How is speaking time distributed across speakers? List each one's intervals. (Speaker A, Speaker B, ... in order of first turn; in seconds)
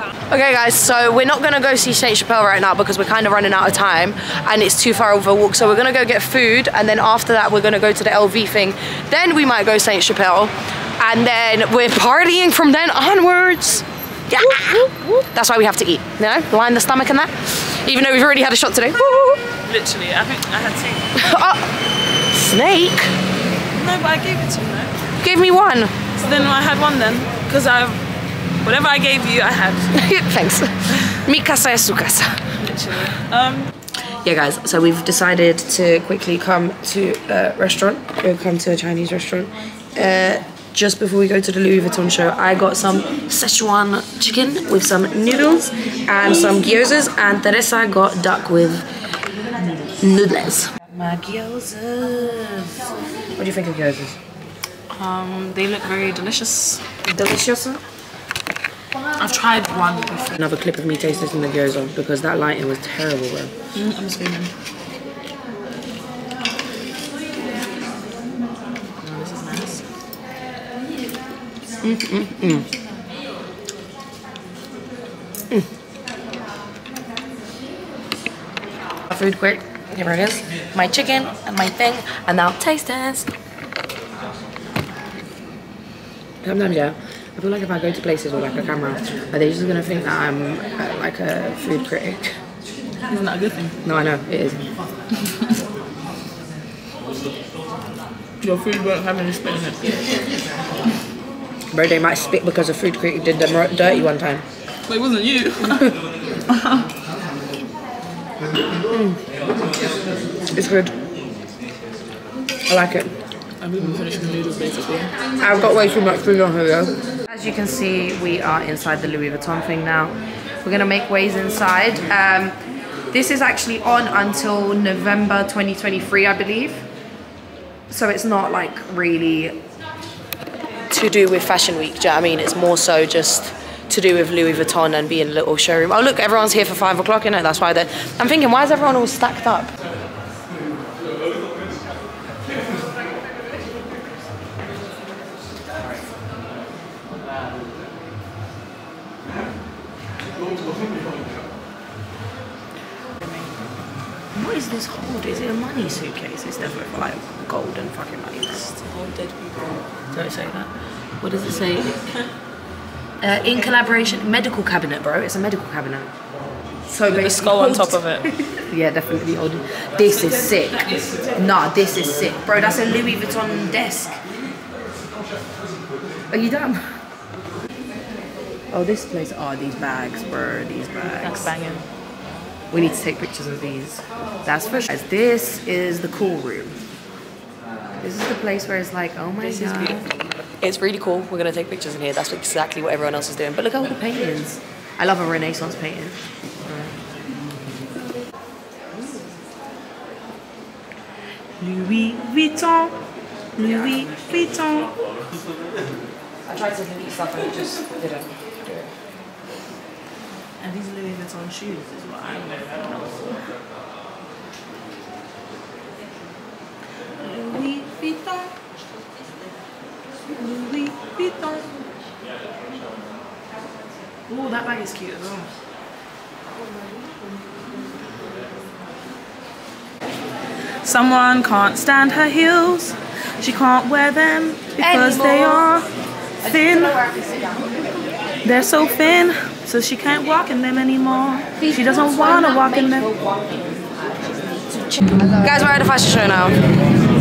Speaker A: 0.3-19.4, 21.1-21.7, 22.3-23.1, 25.2-25.9, 29.9-32.5, 34.2-48.8, 49.9-52.8, 53.4-54.2, 57.0-57.8, 60.4-63.5, 71.8-72.7, 79.1-83.3, 86.4-92.4, 93.8-94.7, 101.7-104.4, 108.9-109.2, 110.5-110.9, 112.7-113.1, 115.4-122.6, 123.1-126.8, 127.9-129.6, 130.9-139.7, 154.3-158.7, 160.1-160.7, 161.2-162.0, 163.2-166.1, 166.9-174.2, 176.3-176.9, 178.7-181.5, 182.7-186.8, 188.0-190.0, 190.6-196.9, 203.6-204.2, 206.4-208.9, 234.8-235.6, 236.4-237.7, 241.6-243.7, 244.7-246.6
Speaker B: 14.4-15.3, 19.6-21.2, 23.7-24.9, 26.2-28.0, 28.6-30.1, 32.6-33.7, 54.9-56.8, 59.2-60.3, 63.7-64.5, 69.0-69.8, 93.1-93.8, 98.4-100.0, 104.9-105.9, 106.5-106.8, 113.6-115.1, 158.5-160.6, 167.1-168.3, 170.1-171.5, 181.2-181.8, 189.5-190.1, 201.6-202.9, 203.6-205.1, 210.6-213.5, 217.2-218.5, 220.3-221.7, 224.3-225.5, 230.8-235.9, 236.4-237.1, 238.4-243.1